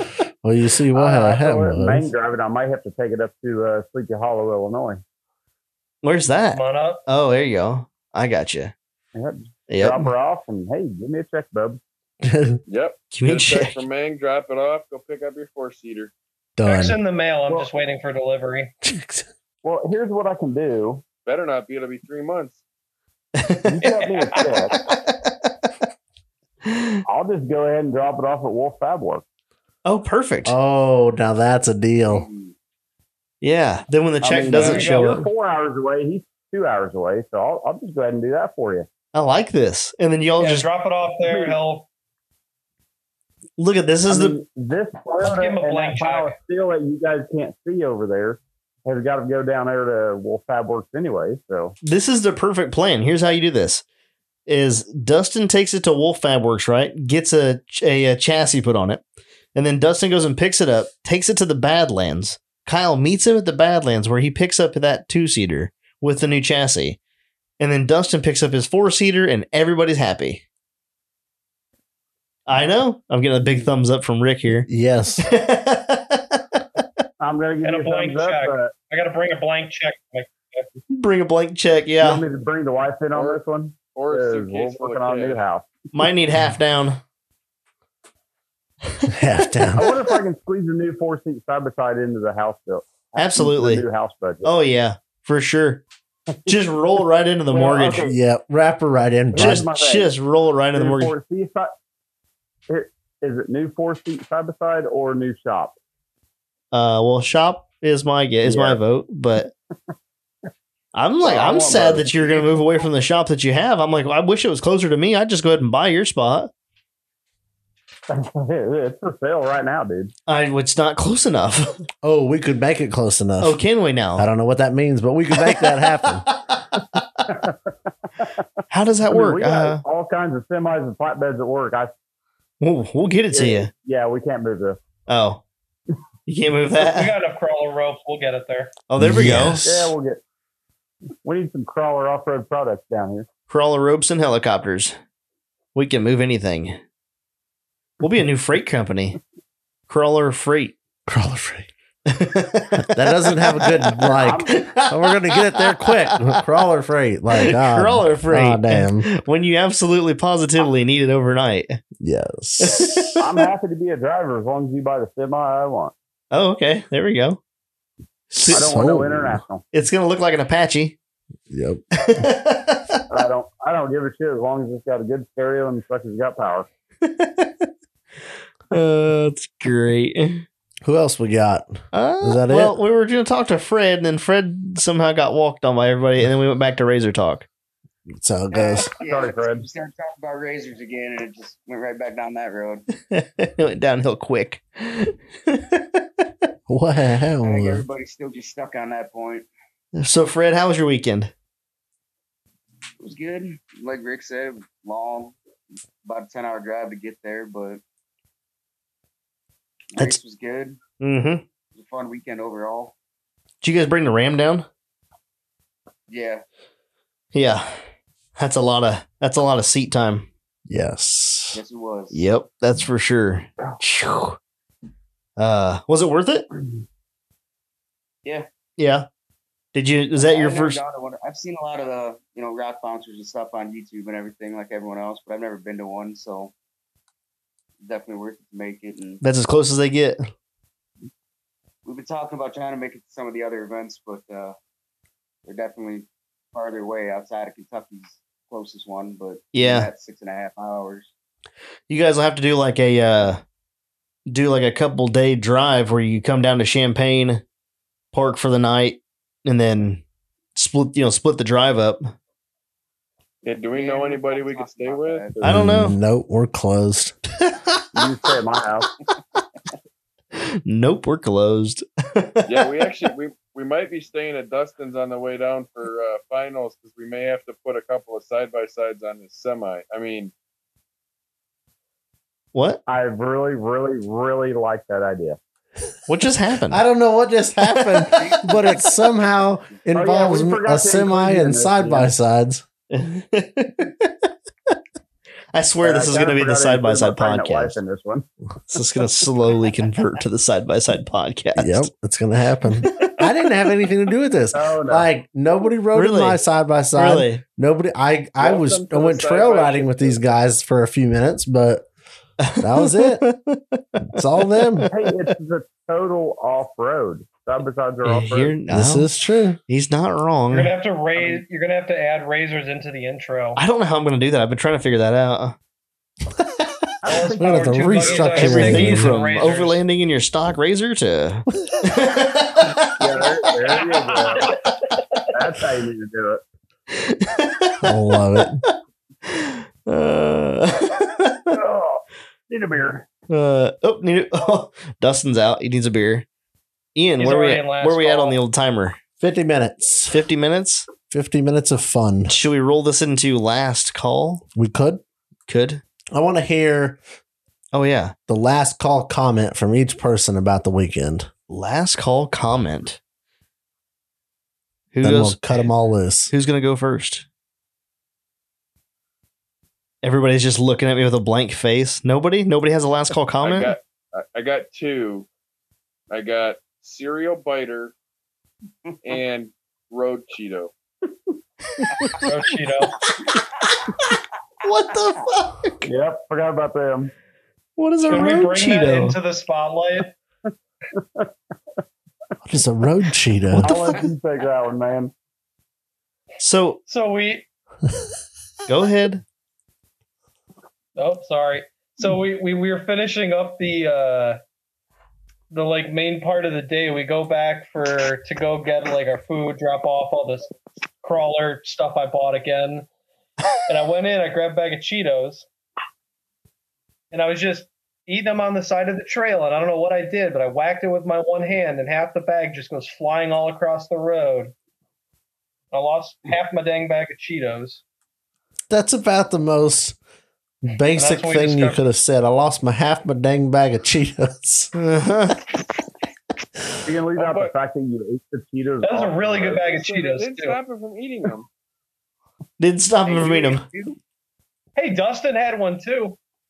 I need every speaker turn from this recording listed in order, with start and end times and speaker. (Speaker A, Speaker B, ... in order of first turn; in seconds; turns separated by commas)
Speaker A: 0.4-2.1, Speaker B: 0.9-5.0, Speaker C: 6.0-8.7, Speaker D: 6.5-7.0, Speaker B: 9.2-11.8, Speaker C: 9.7-10.1, Speaker A: 12.2-12.6, Speaker E: 12.7-16.1, Speaker C: 13.1-13.8, Speaker A: 16.6-17.0, Speaker D: 16.6-18.7, Speaker A: 18.8-19.3, Speaker B: 19.6-21.0, Speaker E: 21.3-22.6, Speaker C: 23.4-23.8, Speaker B: 23.6-24.8, Speaker D: 23.8-24.6, Speaker C: 24.8-25.2, Speaker C: 26.7-27.0, Speaker B: 27.1-29.2, Speaker C: 29.9-30.6, Speaker A: 30.4-32.2, Speaker F: 32.1-32.5, Speaker C: 33.4-35.3, Speaker B: 34.2-38.9, Speaker D: 34.6-35.1, Speaker C: 39.1-40.7, Speaker D: 40.4-41.9, Speaker B: 41.3-41.6, Speaker C: 43.6-44.4, Speaker B: 44.1-51.8, Speaker D: 45.2-46.4, Speaker C: 51.8-53.8, Speaker C: 54.5-59.0, Speaker C: 59.5-67.0, Speaker C: 67.6-70.4, Speaker C: 72.5-74.7, Speaker A: 74.7-75.2, Speaker C: 75.2-76.8, Speaker B: 77.2-78.7, Speaker D: 77.6-80.7, Speaker C: 80.9-82.2, Speaker B: 82.0-85.7, Speaker E: 83.1-83.4, Speaker E: 84.0-85.4, Speaker C: 85.9-87.0, Speaker A: 89.1-89.9, Speaker B: 89.8-94.5, Speaker C: 93.2-93.8, Speaker C: 94.4-95.8, Speaker C: 96.5-98.1, Speaker B: 97.5-98.2, Speaker A: 97.9-99.6, Speaker B: 99.3-100.1, Speaker C: 99.4-101.1, Speaker B: 100.8-101.7, Speaker B: 102.7-105.8, Speaker C: 106.7-109.5, Speaker B: 108.4-108.8, Speaker C: 110.9-116.5, Speaker B: 111.2-112.5, Speaker B: 118.1-120.1, Speaker C: 120.3-121.8, Speaker A: 122.0-123.6, Speaker C: 123.4-124.3, Speaker A: 124.2-126.3, Speaker C: 125.5-127.0, Speaker C: 128.7-129.8, Speaker B: 129.1-131.9, Speaker C: 132.6-133.7, Speaker B: 133.3-134.8, Speaker C: 135.1-135.4, Speaker C: 136.3-137.1, Speaker D: 136.8-138.7, Speaker C: 138.9-139.7, Speaker A: 139.0-139.9, Speaker B: 139.6-140.2, Speaker B: 141.2-143.3, Speaker C: 143.5-144.9, Speaker C: 145.8-146.8, Speaker C: 148.0-149.2, Speaker C: 149.9-150.8, Speaker A: 151.1-151.7, Speaker C: 152.1-156.1, Speaker A: 152.8-159.1, Speaker B: 154.2-154.5, Speaker C: 157.3-161.8, Speaker A: 162.0-163.0, Speaker C: 162.6-163.2, Speaker B: 163.2-165.9, Speaker C: 166.3-167.4, Speaker A: 168.3-169.4, Speaker C: 168.3-168.7, Speaker B: 168.5-169.6, Speaker C: 169.7-171.0, Speaker A: 171.5-172.2, Speaker C: 172.0-173.0, Speaker B: 173.1-176.7, Speaker C: 177.0-177.7, Speaker C: 178.7-180.5, Speaker A: 180.8-182.8, Speaker C: 181.9-187.5, Speaker A: 188.1-188.9, Speaker F: 188.5-192.8, Speaker B: 189.0-189.6, Speaker C: 193.1-196.2, Speaker A: 196.7-197.8, Speaker F: 197.4-199.5, Speaker C: 199.9-201.3, Speaker F: 203.0-205.4, Speaker F: 206.0-207.8, Speaker F: 209.9-210.8, Speaker C: 211.0-211.4, Speaker F: 211.7-212.9, Speaker C: 213.6-214.7, Speaker F: 216.1-216.4, Speaker C: 217.3-217.8, Speaker C: 218.4-220.3, Speaker A: 220.7-221.6, Speaker F: 221.5-222.2, Speaker C: 222.1-224.4, Speaker C: 225.4-226.5, Speaker C: 228.8-229.1, Speaker C: 229.7-230.8, Speaker F: 230.2-236.5, Speaker F: 237.8-239.2, Speaker C: 239.2-240.2, Speaker F: 241.8-244.6, Speaker F: 245.5-251.1, Speaker C: 249.5-249.9, Speaker C: 251.9-253.4, Speaker C: 254.3-257.4, Speaker C: 258.1-260.0, Speaker C: 260.6-262.1, Speaker E: 263.4-265.2, Speaker F: 263.7-265.4, Speaker C: 265.4-266.0, Speaker A: 265.4-267.2, Speaker B: 267.9-268.9, Speaker C: 270.4-272.7, Speaker E: 272.5-280.3, Speaker C: 282.5-282.8, Speaker B: 282.9-285.4, Speaker C: 286.1-286.8, Speaker A: 286.7-292.6, Speaker C: 287.6-288.2, Speaker F: 288.1-288.8, Speaker B: 289.9-292.1, Speaker C: 292.9-294.1, Speaker C: 295.5-297.8, Speaker B: 295.8-298.3, Speaker C: 298.7-301.9, Speaker A: 301.6-311.9, Speaker C: 303.0-303.2, Speaker B: 304.5-305.1, Speaker C: 305.9-306.4, Speaker C: 306.9-307.4, Speaker E: 308.4-310.2, Speaker C: 312.4-314.9, Speaker A: 312.6-313.2, Speaker A: 314.1-314.9, Speaker B: 314.9-318.5, Speaker C: 318.0-319.1, Speaker A: 318.7-319.6, Speaker C: 319.7-320.7, Speaker D: 320.5-323.6, Speaker C: 323.6-325.6, Speaker B: 327.0-328.6, Speaker D: 327.1-329.8, Speaker A: 327.4-329.2, Speaker C: 328.4-333.2, Speaker B: 333.0-334.6, Speaker D: 333.7-334.6, Speaker B: 335.3-336.4, Speaker C: 336.9-338.4, Speaker A: 337.8-338.6, Speaker C: 339.2-341.5, Speaker B: 341.5-343.1, Speaker C: 343.3-346.3, Speaker C: 347.0-349.0, Speaker D: 347.2-348.4, Speaker A: 349.2-350.2, Speaker C: 350.1-350.9, Speaker A: 351.1-352.3, Speaker C: 352.3-354.4, Speaker A: 354.6-355.0, Speaker C: 355.5-355.8, Speaker A: 356.1-357.0, Speaker C: 357.7-358.1, Speaker A: 358.3-361.3, Speaker C: 361.5-363.0, Speaker C: 364.9-365.7, Speaker A: 365.0-366.3, Speaker C: 366.3-367.3, Speaker C: 370.0-373.8, Speaker E: 373.4-375.3, Speaker E: 376.1-377.9, Speaker E: 379.0-380.7, Speaker C: 381.8-382.3, Speaker D: 382.2-382.9, Speaker C: 384.6-385.9, Speaker B: 385.9-387.1, Speaker C: 387.8-389.2, Speaker D: 388.1-390.1, Speaker B: 391.0-391.3, Speaker A: 392.4-393.7, Speaker C: 393.6-394.1, Speaker B: 393.6-395.1, Speaker C: 396.4-396.8, Speaker D: 396.9-397.4, Speaker C: 398.7-399.2, Speaker D: 401.0-404.4, Speaker D: 405.5-410.5, Speaker D: 411.0-412.9, Speaker D: 413.7-415.5, Speaker D: 417.1-424.5, Speaker D: 425.7-427.8, Speaker A: 428.7-430.0, Speaker A: 430.6-434.7, Speaker D: 431.0-431.8, Speaker C: 434.8-435.4, Speaker B: 436.9-439.6, Speaker E: 437.2-437.5, Speaker D: 438.8-440.6, Speaker E: 439.5-441.5, Speaker C: 442.6-443.6, Speaker F: 443.1-444.0, Speaker D: 444.8-446.2